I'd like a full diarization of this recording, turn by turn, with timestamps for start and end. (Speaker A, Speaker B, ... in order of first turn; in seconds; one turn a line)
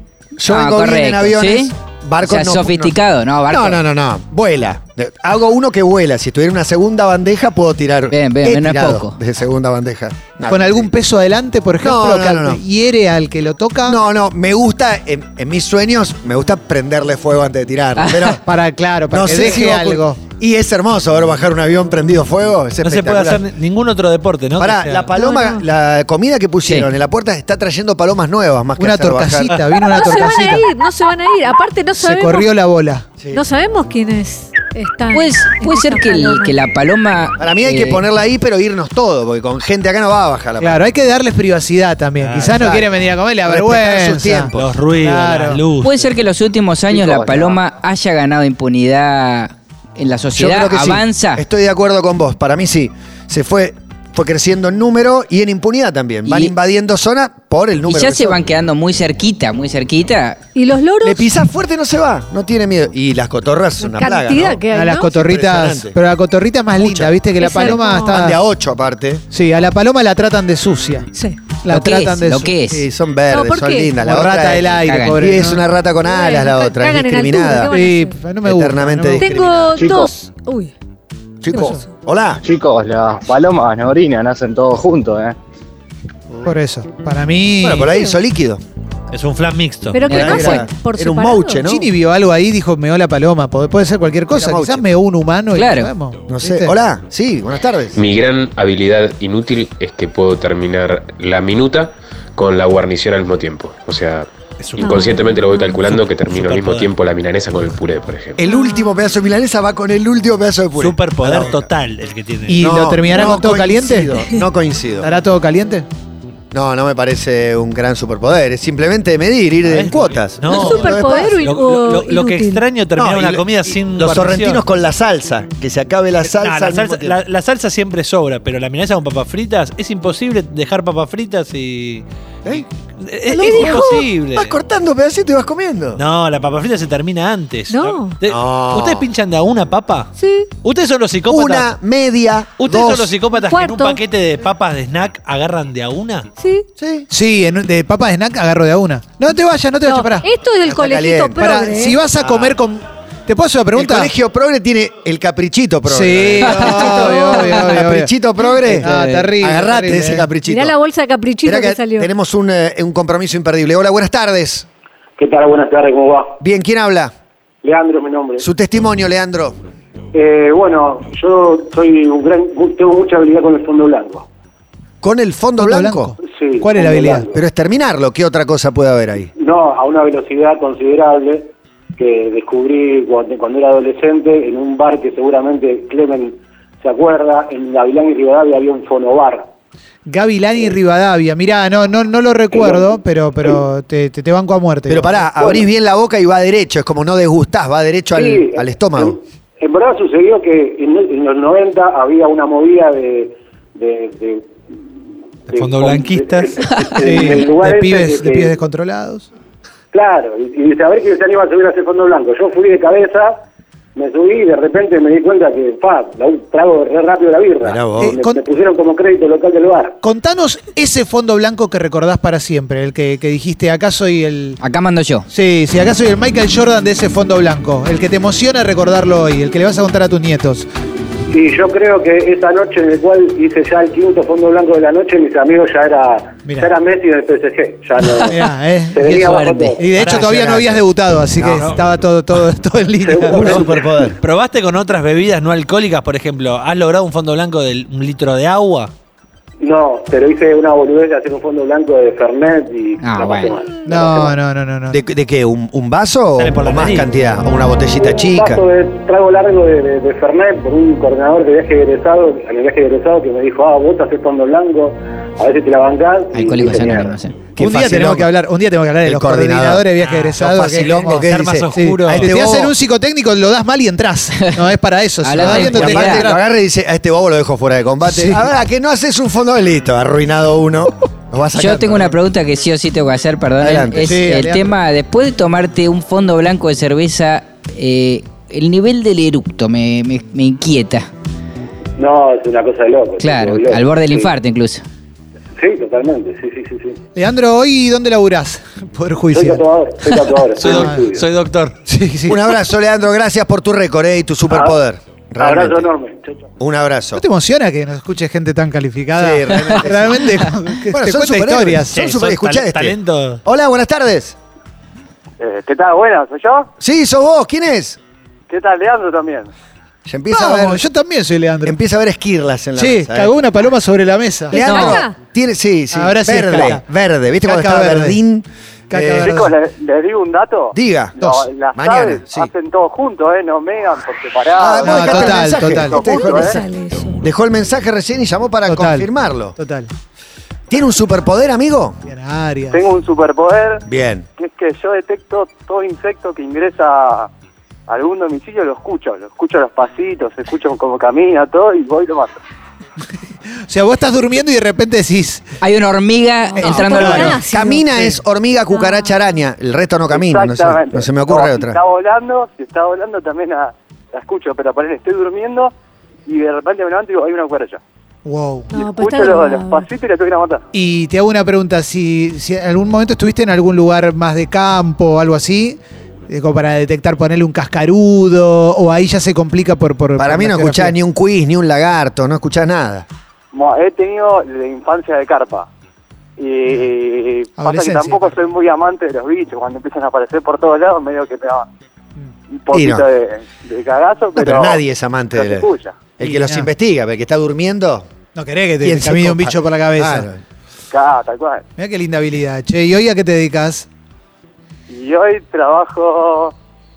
Speaker A: 0.4-2.9
Speaker B: 0.5-3.8
Speaker A: 3.5-10.9
Speaker B: 8.1-9.2
Speaker C: 10.5-14.0
Speaker A: 11.8-12.6
Speaker A: 13.8-18.4
Speaker B: 18.0-18.4
Speaker C: 18.4-20.2
Speaker A: 19.1-23.4
Speaker D: 22.8-25.1
Speaker A: 24.6-29.6
Speaker E: 25.1-25.6
Speaker C: 28.8-30.6
Speaker E: 29.8-32.5
Speaker C: 32.0-33.1
Speaker E: 33.3-36.6
Speaker B: 35.1-38.0
Speaker A: 37.4-40.9
Speaker C: 40.6-45.6
Speaker D: 42.2-42.7
Speaker A: 42.4-42.9
Speaker A: 43.5-44.7
Speaker D: 44.5-46.1
Speaker B: 45.8-51.4
Speaker F: 47.0-47.5
Speaker A: 50.4-58.4
Speaker B: 56.2-56.5
Speaker B: 57.9-60.4
Speaker E: 60.5-61.3
Speaker A: 61.0-66.0
Speaker E: 63.8-65.1
Speaker C: 64.7-68.4
Speaker A: 66.8-69.2
Speaker E: 67.4-68.3
Speaker C: 69.3-71.1
Speaker E: 71.1-71.4
Speaker C: 71.6-72.5
Speaker B: 71.7-72.9
Speaker A: 72.7-77.7
Speaker E: 73.3-74.0
Speaker C: 74.0-75.6
Speaker B: 74.8-75.2
Speaker E: 76.0-78.3
Speaker C: 77.7-79.4
Speaker A: 78.4-80.0
Speaker E: 79.2-80.7
Speaker F: 79.8-80.1
Speaker A: 81.4-82.4
Speaker E: 81.5-81.9
Speaker F: 82.4-85.4
Speaker C: 86.4-87.9
Speaker A: 87.6-88.6
Speaker D: 89.1-90.1
Speaker E: 89.9-91.7
Speaker A: 90.1-91.9
Speaker B: 90.2-90.4
Speaker C: 91.6-96.7
Speaker A: 94.3-94.9
Speaker B: 95.5-95.9
Speaker A: 96.3-98.0
Speaker G: 98.0-108.4
Speaker D: 104.6-106.9
Speaker E: 104.8-105.8
Speaker A: 108.4-111.7
Speaker E: 108.4-109.0
Speaker D: 110.8-112.7
Speaker C: 112.5-114.1
Speaker A: 112.6-115.1
Speaker C: 115.0-115.9
Speaker A: 116.5-121.4
Speaker D: 119.7-124.6
Speaker E: 120.5-122.6
Speaker A: 123.0-127.2
Speaker D: 126.2-134.5
Speaker E: 133.3-134.1
Speaker A: 133.4-136.0
Speaker D: 136.0-141.7
Speaker E: 137.7-138.2
Speaker A: 138.2-139.1
Speaker E: 140.2-140.5
Speaker A: 141.3-143.1
Speaker D: 142.6-146.3
Speaker E: 143.3-144.0
Speaker E: 146.4-146.7
Speaker A: 146.8-147.1
Speaker C: 147.1-150.2
Speaker E: 149.8-152.0
Speaker A: 150.7-151.5
Speaker C: 151.4-154.1
Speaker A: 152.2-152.6
Speaker A: 153.7-160.7
Speaker C: 155.9-158.1
Speaker E: 156.9-157.3
Speaker B: 158.7-159.3
Speaker C: 158.7-160.3
Speaker E: 160.4-162.1
Speaker A: 161.4-164.7
Speaker H: 165.2-166.4
Speaker A: 166.4-167.1
Speaker H: 167.6-168.5
Speaker A: 168.4-169.6
Speaker H: 170.1-174.2
Speaker A: 175.0-176.1
Speaker C: 175.6-177.2
Speaker H: 176.2-177.4
Speaker A: 177.3-179.3
Speaker H: 179.3-189.5
Speaker C: 190.1-195.3
Speaker H: 192.5-192.9
Speaker A: 194.9-199.2
Speaker H: 195.4-195.6
Speaker H: 198.1-204.5
Speaker H: 205.5-208.5
Speaker D: 205.5-206.8
Speaker C: 207.0-209.3
Speaker H: 209.9-213.4
Speaker H: 214.0-220.0
Speaker A: 217.6-218.2
Speaker C: 218.0-218.4
Speaker C: 220.0-224.6
Speaker B: 224.6-225.3
Speaker C: 225.3-230.7
Speaker H: 231.3-239.9
Speaker C: 236.5-236.7
Speaker C: 238.2-243.6
Speaker B: 239.1-239.8
Speaker D: 239.9-240.8
Speaker D: 241.4-241.8
Speaker H: 243.0-243.8
Speaker A: 243.3-244.2
Speaker D: 243.3-243.6
Speaker D: 244.2-248.9
Speaker H: 249.6-254.3
Speaker B: 253.0-253.6
Speaker C: 253.8-255.0
Speaker A: 254.9-258.6
Speaker D: 256.4-257.1
Speaker H: 258.0-267.2
Speaker B: 266.3-267.4
Speaker A: 267.6-268.3
Speaker C: 267.6-276.4
Speaker A: 269.0-272.7
Speaker D: 270.0-272.3
Speaker B: 275.2-276.3
Speaker A: 275.4-282.1
Speaker C: 278.1-278.4
Speaker B: 281.5-291.1
Speaker A: 283.6-284.2
Speaker C: 284.0-284.7
Speaker H: 292.0-294.3
Speaker B: 293.2-294.8
Speaker H: 295.6-297.0
Speaker C: 297.1-299.6
Speaker H: 299.3-301.2
Speaker D: 300.6-301.8
Speaker C: 300.6-301.0
Speaker C: 301.9-302.4
Speaker A: 302.2-305.9
Speaker H: 304.5-304.8
Speaker H: 305.4-306.5
Speaker A: 306.6-307.2
Speaker C: 307.1-312.0
Speaker A: 309.1-314.4
Speaker D: 311.9-313.4
Speaker H: 315.4-316.7
Speaker A: 316.8-318.0
Speaker H: 318.5-319.5
Speaker A: 320.1-320.8
Speaker C: 320.3-321.8
Speaker A: 321.6-323.3
Speaker C: 322.8-324.6
Speaker E: 324.5-325.1
Speaker A: 324.5-329.5
Speaker B: 324.6-325.0
Speaker C: 325.9-326.8
Speaker C: 327.4-328.2
Speaker C: 328.9-329.5
Speaker H: 329.2-336.6
Speaker A: 330.7-331.2
Speaker A: 331.7-332.5
Speaker A: 334.5-336.6
Speaker C: 334.8-336.0
Speaker E: 335.9-337.2
Speaker A: 337.2-339.6
Speaker C: 338.7-339.9
Speaker A: 340.7-342.0
Speaker C: 342.1-342.8
Speaker H: 342.7-343.8
Speaker A: 343.9-344.3
Speaker H: 344.4-347.3
Speaker H: 347.9-352.4
Speaker C: 353.7-355.5
Speaker B: 355.6-357.4
Speaker E: 356.5-357.9
Speaker C: 356.6-358.2
Speaker A: 357.4-361.8
Speaker E: 358.7-359.1
Speaker H: 360.1-365.7
Speaker H: 366.2-367.8
Speaker C: 368.2-368.7
Speaker E: 368.7-369.9
Speaker H: 368.7-370.6
Speaker C: 370.7-375.8
Speaker C: 376.3-381.0
Speaker A: 380.2-383.1
Speaker H: 383.5-385.7
Speaker H: 386.4-391.6
Speaker C: 387.6-388.3
Speaker H: 392.5-394.8
Speaker A: 392.7-393.0
Speaker A: 394.4-398.1
Speaker H: 395.3-396.0
Speaker C: 396.2-396.7
Speaker C: 398.4-400.3
Speaker A: 398.8-400.4
Speaker H: 400.9-401.6
Speaker C: 401.8-403.9
Speaker H: 404.9-406.5